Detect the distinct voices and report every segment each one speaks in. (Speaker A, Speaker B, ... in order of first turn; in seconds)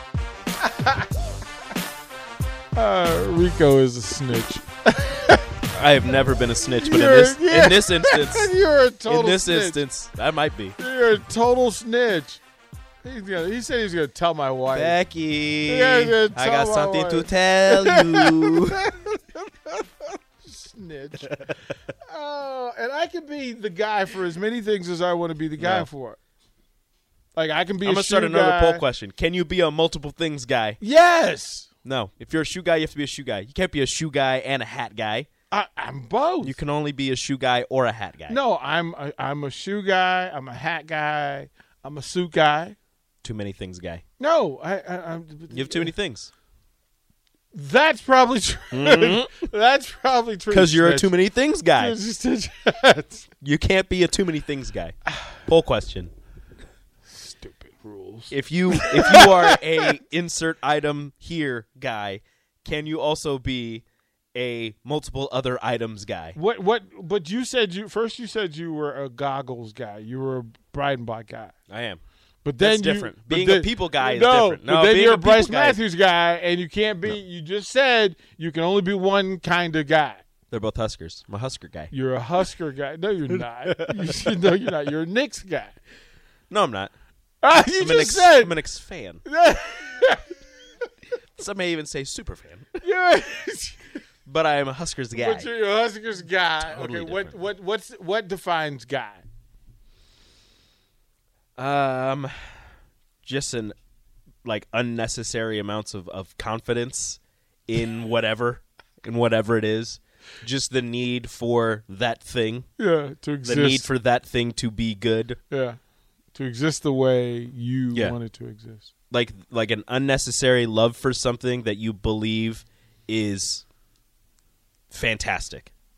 Speaker A: 2.7-5.4, 6.8-9.8, 10.8-12.4, 13.0-15.0, 15.7-19.8, 20.4-21.4, 22.0-26.2, 27.3-28.9, 30.8-31.7, 35.5-36.6, 38.3-42.8, 44.2-45.9, 47.5-51.1, 51.7-53.2, 57.1-59.6, 66.3-71.5, 72.4-80.2, 81.9-85.8, 87.4-88.5, 89.2-90.2, 92.8-94.0, 95.1-99.2, 112.8-113.9, 115.5-115.8, 116.3-118.9
Speaker B: 5.7-8.5, 9.1-10.8, 14.7-18.8, 25.6-25.9, 27.8-30.8, 31.8-35.3, 36.4-38.4, 43.2-44.0, 45.5-46.3, 48.7-49.4, 50.5-52.0, 53.4-56.1, 58.3-66.4, 71.7-72.0, 72.6-75.8, 80.5-81.9, 83.6-84.6, 86.5-86.9, 87.8-89.2, 91.4-92.7, 94.2-95.5, 96.6-97.4, 101.6-102.3, 103.2-103.7, 104.4-112.7, 113.4-115.4, 117.9-118.2, 119.1-123.6, 124.9-125.7